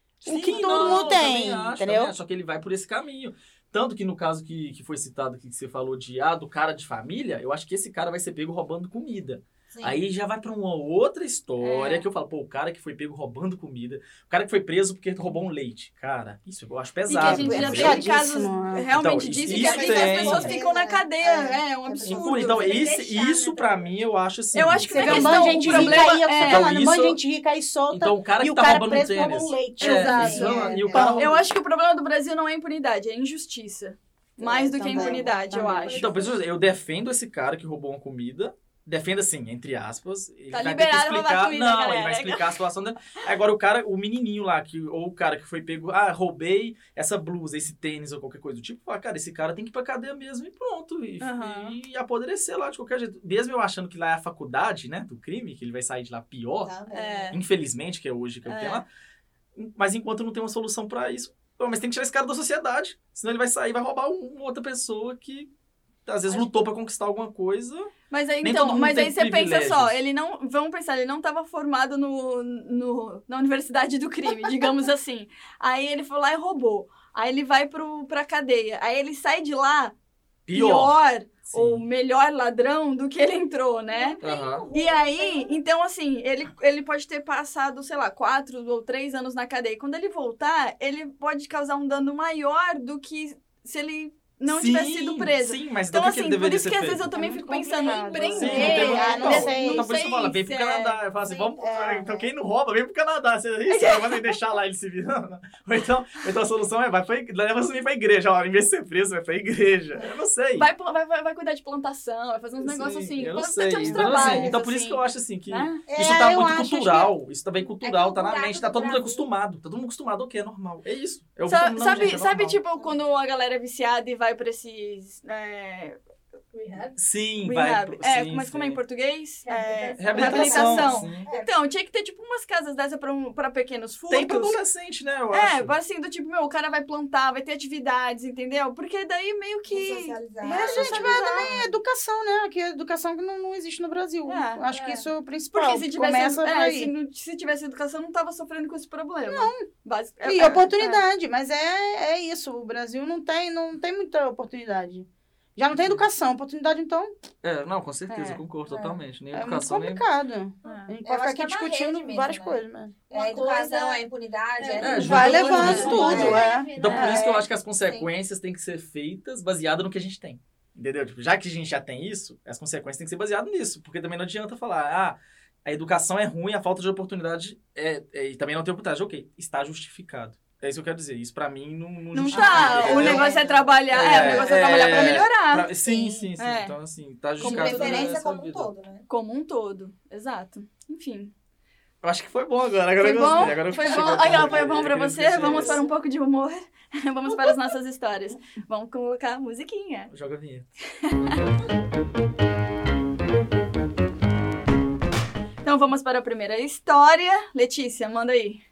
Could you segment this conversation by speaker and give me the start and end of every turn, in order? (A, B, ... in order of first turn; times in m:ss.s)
0:00.2-0:18.1 A
0:00.2-0:02.1 B
0:09.7-0:10.0 C
0:11.6-0:12.0 D
0:17.1-0:22.7 D
0:17.2-0:18.9 B
0:18.9-0:20.6 A
0:19.5-0:23.0 C
0:22.0-0:27.2 A
0:22.5-0:23.9 E
0:24.5-0:26.7 D
0:24.9-0:31.4 B
0:27.9-0:31.4 A
0:29.8-0:30.6 D
0:30.1-0:31.2 C
0:31.2-0:36.0 D
0:34.4-0:36.0 B
0:34.9-0:35.3 C
0:35.9-0:36.3 E
0:35.9-0:56.8 A
0:40.5-0:42.6 D
0:51.2-0:51.8 D
0:56.6-0:57.4 C
0:56.9-0:57.4 D
0:57.3-0:58.9 A
0:58.4-0:58.8 D
0:59.5-1:05.5 A
1:06.0-1:10.0 A
1:08.1-1:19.9 D
1:20.5-1:21.0 A
1:20.5-1:24.2 D
1:21.5-1:21.8 A
1:23.9-1:25.5 E
1:24.2-1:24.7 A
1:24.3-1:24.6 C
1:24.7-1:41.0 D
1:34.4-1:37.2 A
1:37.1-1:39.9 B
1:38.1-1:39.1 C
1:38.3-1:50.7 A
1:41.3-1:42.3 B
1:43.7-1:44.4 D
1:50.6-1:55.8 D
1:52.6-2:02.6 A
1:53.9-1:54.5 C
1:53.9-1:54.4 B
1:55.9-1:57.1 B
1:57.8-1:59.3 C
2:01.4-2:06.0 D
2:02.7-2:03.0 C
2:06.5-2:07.0 E
2:07.0-2:08.8 A
2:07.4-2:14.6 D
2:09.4-2:10.8 E
2:09.9-2:11.3 A
2:10.2-2:10.6 B
2:10.3-2:11.5 C
2:14.1-2:15.7 A
2:15.3-2:21.5 D
2:19.7-2:21.7 C
2:20.4-2:26.9 B
2:24.2-2:24.6 D
2:24.7-2:25.1 E
2:25.5-2:31.0 D
2:29.2-2:29.6 B
2:30.2-2:37.1 B
2:35.7-2:36.0 A
2:37.4-2:40.0 A
2:38.1-2:38.4 D
2:39.3-2:42.9 B
2:40.6-2:40.9 D
2:41.0-2:46.4 C
2:43.1-2:44.0 E
2:44.6-2:47.4 E
2:44.8-3:03.4 A
2:44.9-2:47.3 B
2:45.3-2:45.9 D
2:47.0-2:48.1 C
3:02.1-3:05.7 D
3:02.3-3:05.3 C
3:03.9-3:08.7 A
3:05.8-3:06.3 C
3:06.4-3:06.7 D
3:07.4-3:08.1 D
3:07.4-3:09.0 C
3:09.1-3:11.3 D
3:12.0-3:15.8 A
3:13.0-3:20.1 D
3:15.4-3:15.9 C
3:20.1-3:20.7 A
3:21.0-3:21.4 D
3:25.6-3:28.6 D